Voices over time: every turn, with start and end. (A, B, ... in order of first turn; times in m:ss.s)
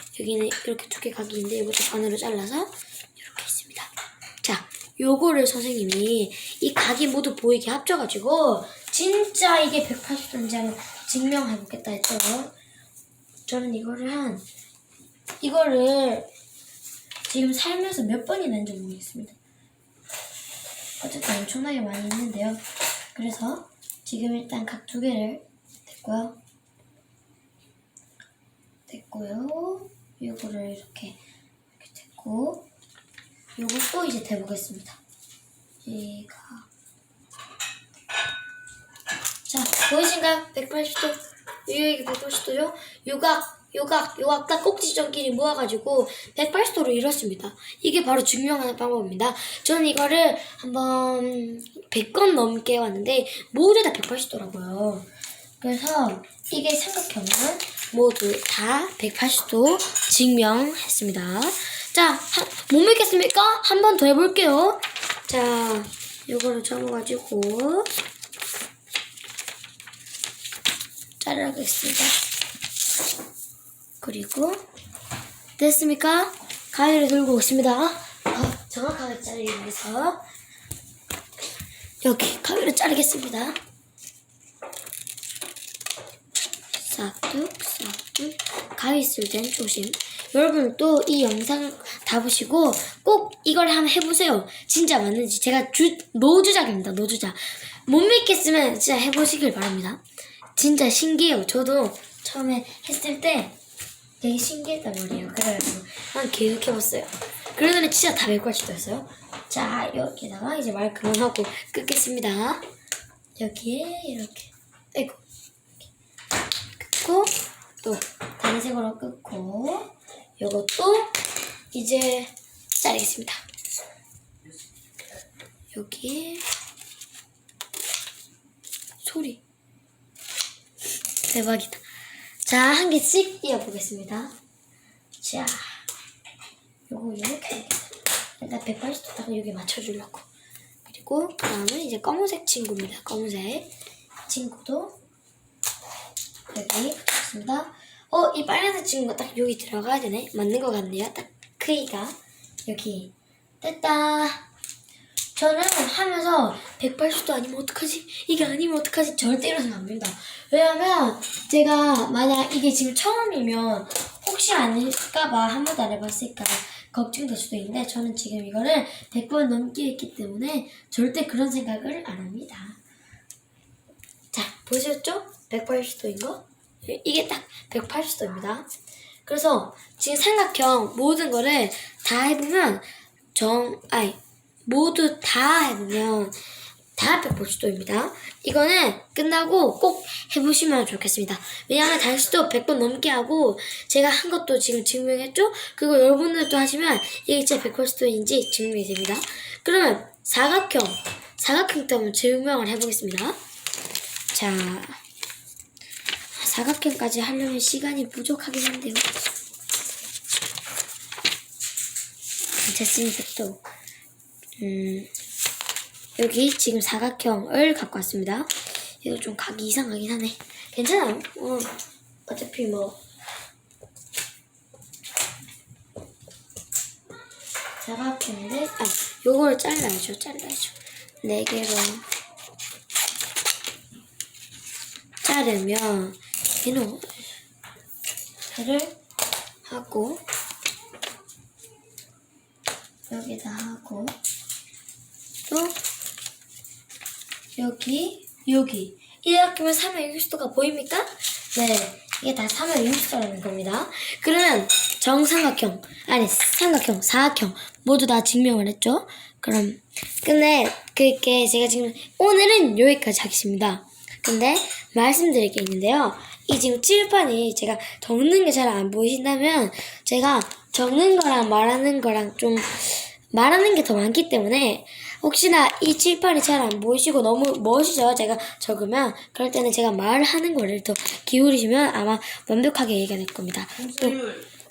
0:00.1-0:12.5 A
0:13.5-0:14.5 A
0:15.4-0:16.3 A
0:17.3-0:19.4 A
0:21.0-0:22.6 A
0:23.1-0:26.4 A
0:28.9-0:31.2 A
0:31.8-0:32.6 A
0:33.6-0:35.0 A
0:35.8-0:36.7 A
0:39.5-0:55.1 A
0:55.6-1:07.9 A
1:11.2-1:12.2 A
1:14.0-1:14.6 A
1:15.6-1:20.2 A
1:22.0-1:23.6 A
1:26.7-1:40.0 A
1:40.6-1:43.6 A
1:44.2-1:52.6 A
1:53.4-1:55.2 A
1:56.8-2:01.1 A
2:01.7-2:03.4 A
2:05.7-2:06.4 A
2:09.0-2:09.4 A
2:11.3-2:11.8 A
2:12.4-2:14.4 A
2:15.2-2:15.8 A
2:16.9-2:20.3 A
2:20.8-2:23.7 A
2:24.3-2:25.0 A
2:26.5-2:34.5 A
2:35.4-2:52.8 A
2:54.3-2:58.7 A
2:59.2-3:06.4 A
3:06.9-3:23.4 A
3:24.3-3:25.0 A
3:26.3-3:29.1 A
3:32.6-3:33.6 A
3:34.6-3:35.1 A
3:36.2-3:43.0 A
3:47.8-3:52.0 A
3:55.2-3:57.2 A
3:58.5-3:59.0 A
3:59.6-4:00.2 A
4:03.1-4:04.1 A
4:05.5-4:05.8 A
4:07.6-4:44.3 A